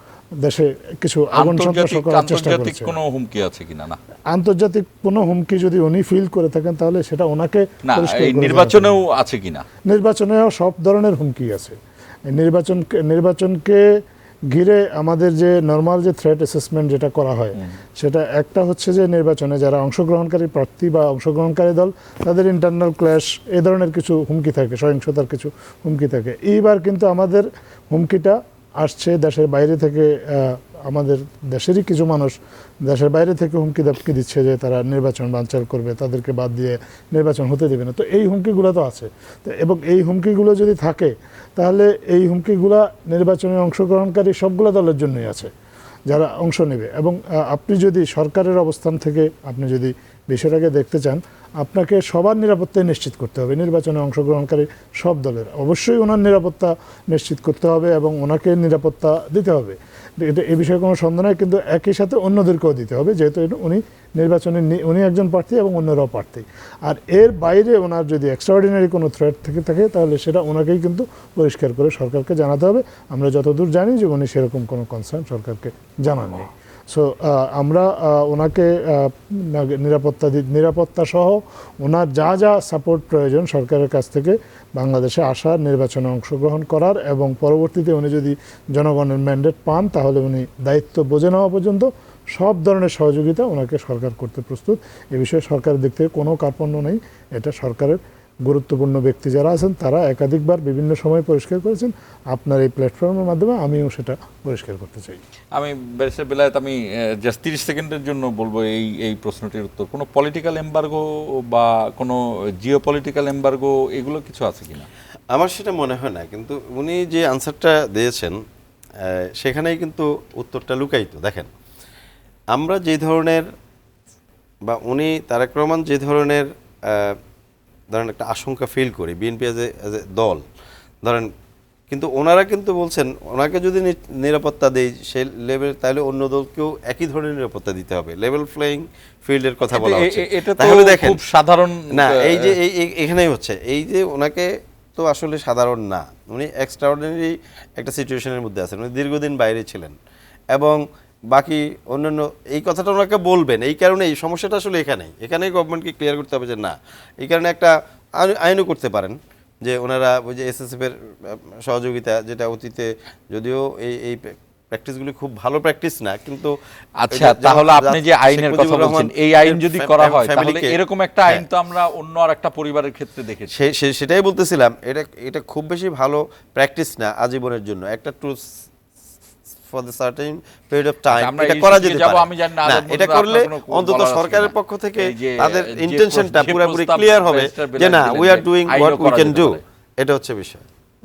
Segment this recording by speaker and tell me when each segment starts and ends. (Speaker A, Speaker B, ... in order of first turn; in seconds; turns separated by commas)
Speaker A: 0.4-2.9, Speaker B: 1.3-4.0, Speaker A: 4.3-8.9, Speaker B: 7.8-9.6, Speaker A: 9.9-11.8, Speaker A: 12.3-13.8, Speaker A: 14.5-45.5, Speaker A: 46.1-105.2, Speaker B: 105.5-114.9, Speaker C: 115.3-118.4, Speaker C: 119.0-121.5, Speaker C: 122.5-123.5, Speaker C: 124.7-127.2, Speaker C: 127.9-130.4, Speaker C: 131.0-131.3, Speaker C: 131.9-141.2, Speaker B: 139.7-142.5, Speaker C: 141.9-149.9, Speaker C: 150.5-166.5, Speaker B: 167.0-173.5, Speaker C: 167.1-171.4, Speaker C: 173.5-178.4, Speaker C: 179.7-190.6, Speaker B: 181.2-189.6